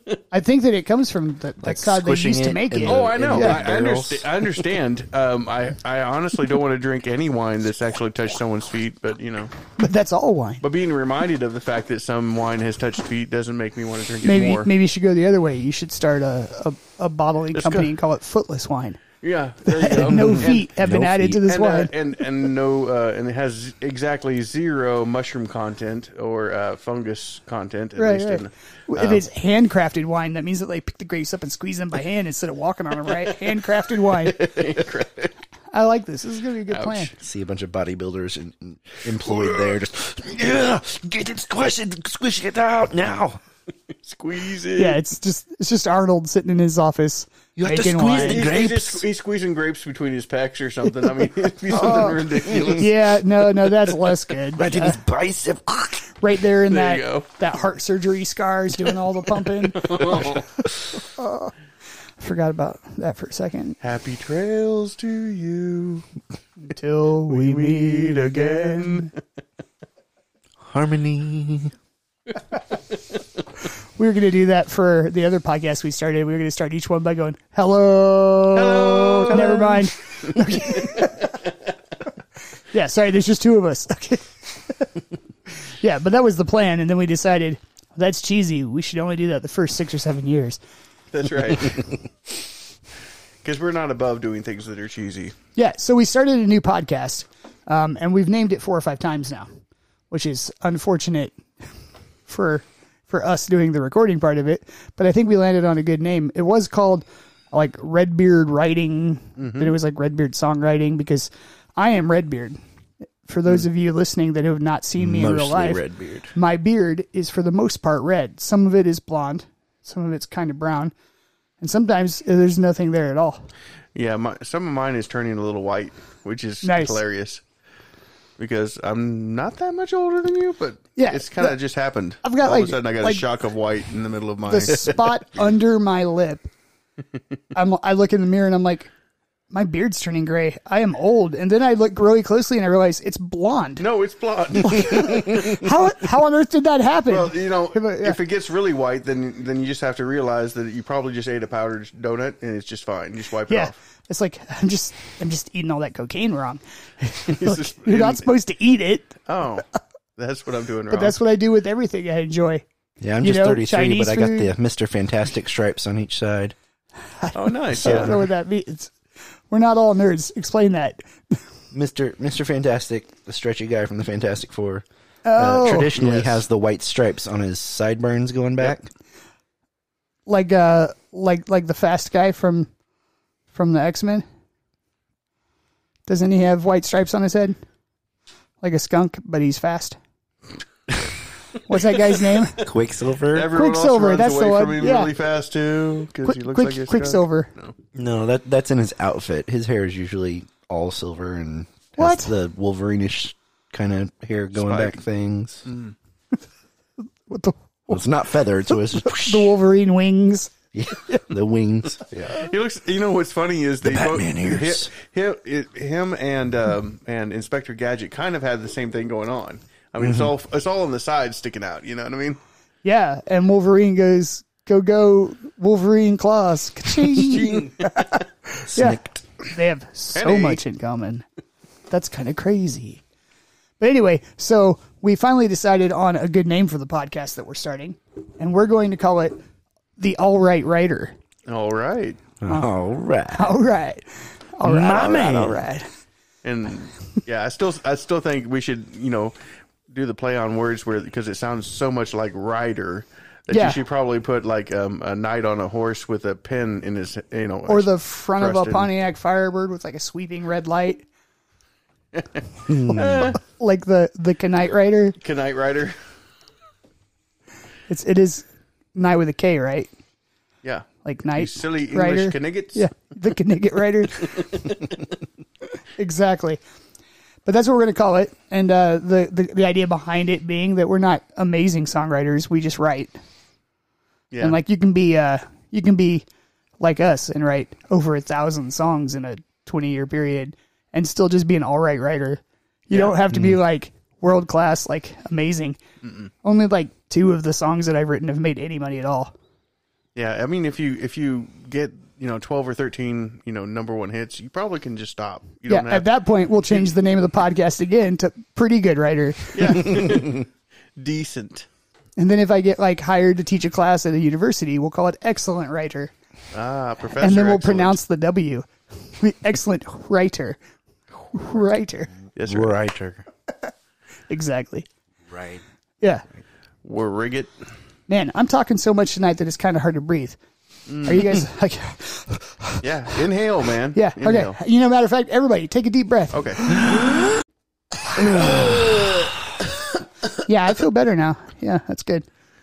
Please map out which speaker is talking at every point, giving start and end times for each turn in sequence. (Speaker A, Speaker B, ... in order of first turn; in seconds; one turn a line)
Speaker A: 0.3-3.6
Speaker B: 1.6-4.7
Speaker C: 2.8-9.5
Speaker A: 9.8-10.6
Speaker C: 10.6-14.7
Speaker A: 14.2-19.1
Speaker C: 17.5-17.9
Speaker C: 19.2-20.7
Speaker A: 19.6-21.9
Speaker B: 20.2-21.4
Speaker C: 21.4-29.2
Speaker A: 28.0-34.5
Speaker C: 33.1-35.3
Speaker A: 35.7-37.1
Speaker C: 36.7-37.1
Speaker B: 37.2-43.4
Speaker C: 44.0-45.0
Speaker A: 44.8-48.5
Speaker B: 47.5-49.0
Speaker C: 48.1-54.1
Speaker A: 51.7-55.0
Speaker B: 51.7-52.8
Speaker B: 54.5-56.2
Speaker A: 56.2-61.5
Speaker C: 56.7-57.3
Speaker C: 59.4-60.5
Speaker A: 62.2-63.8
Speaker C: 63.8-66.0
Speaker A: 66.6-69.1
Speaker C: 67.3-69.1
Speaker B: 70.6-71.7
Speaker A: 74.0-81.4
Speaker C: 78.5-81.3
Speaker A: 82.7-85.0
Speaker A: 85.6-90.6
Speaker C: 91.1-92.0
Speaker C: 93.4-95.3
Speaker A: 95.5-99.5
Speaker A: 100.1-101.4
Speaker A: 102.3-112.6
Speaker C: 109.4-109.8
Speaker A: 113.2-120.9
Speaker B: 115.0-116.3
Speaker A: 121.6-123.4
Speaker C: 123.9-127.4
Speaker A: 126.6-127.0
Speaker C: 128.4-135.2
Speaker A: 130.9-131.6
Speaker A: 132.2-133.2
Speaker A: 134.4-136.5
Speaker A: 137.5-138.9
Speaker A: 139.5-143.8
Speaker C: 143.8-145.8
Speaker A: 144.6-148.2
Speaker C: 147.1-153.8
Speaker A: 153.5-159.2
Speaker C: 157.2-158.3
Speaker C: 159.3-159.6
Speaker C: 160.2-161.2
Speaker A: 160.9-162.6
Speaker B: 163.0-166.5
Speaker A: 163.2-164.5
Speaker A: 167.2-168.9
Speaker C: 167.3-168.2
Speaker B: 167.8-168.2
Speaker A: 169.5-171.3
Speaker B: 171.7-174.8
Speaker A: 175.2-176.0
Speaker B: 175.3-178.9
Speaker C: 175.9-176.4
Speaker A: 180.2-182.7
Speaker A: 183.5-184.2
Speaker A: 186.1-187.6
Speaker A: 188.6-190.0
Speaker A: 191.7-192.7
Speaker B: 192.6-193.5
Speaker C: 193.3-197.7
Speaker A: 193.5-195.1
Speaker A: 196.2-197.5
Speaker B: 197.9-205.7
Speaker A: 202.0-202.3
Speaker C: 204.6-205.0
Speaker C: 205.7-205.9
Speaker A: 207.3-208.0
Speaker B: 207.9-209.5
Speaker A: 208.7-210.5
Speaker B: 210.7-212.5
Speaker C: 212.2-222.4
Speaker B: 213.8-214.9
Speaker B: 220.0-220.3
Speaker A: 222.8-231.2
Speaker C: 227.1-228.2
Speaker B: 228.7-229.3
Speaker C: 230.1-230.6
Speaker A: 231.9-233.0
Speaker A: 233.8-239.3
Speaker A: 240.0-241.2
Speaker C: 241.5-242.2
Speaker B: 242.4-243.5
Speaker A: 243.3-245.9
Speaker B: 244.6-245.6
Speaker C: 244.8-245.7
Speaker C: 246.4-249.3
Speaker C: 249.9-258.9
Speaker A: 253.5-253.8
Speaker A: 257.7-261.1
Speaker B: 262.7-263.4
Speaker A: 262.9-265.2
Speaker C: 262.9-263.4
Speaker C: 265.2-266.0
Speaker A: 267.9-269.9
Speaker C: 270.6-272.9
Speaker A: 271.0-274.8
Speaker C: 274.1-274.9
Speaker A: 276.0-276.6
Speaker A: 277.4-283.1
Speaker C: 284.3-284.6
Speaker A: 284.4-286.2
Speaker A: 286.8-295.8
Speaker C: 292.9-293.2
Speaker B: 293.3-293.6
Speaker C: 296.0-296.3
Speaker A: 296.4-299.3
Speaker C: 300.1-306.1
Speaker A: 305.7-310.0
Speaker C: 306.6-306.9
Speaker C: 309.5-311.6
Speaker A: 312.2-316.1
Speaker C: 316.5-318.0
Speaker A: 317.2-320.6
Speaker A: 321.3-322.1
Speaker C: 322.4-322.7
Speaker B: 322.4-323.2
Speaker A: 324.3-324.9
Speaker B: 325.3-325.6
Speaker C: 326.8-327.5
Speaker A: 328.1-330.4
Speaker C: 330.9-331.3
Speaker A: 331.0-332.8
Speaker C: 332.8-334.6
Speaker A: 333.9-336.7
Speaker C: 336.3-337.3
Speaker C: 338.2-339.2
Speaker A: 338.3-338.5
Speaker A: 340.4-342.2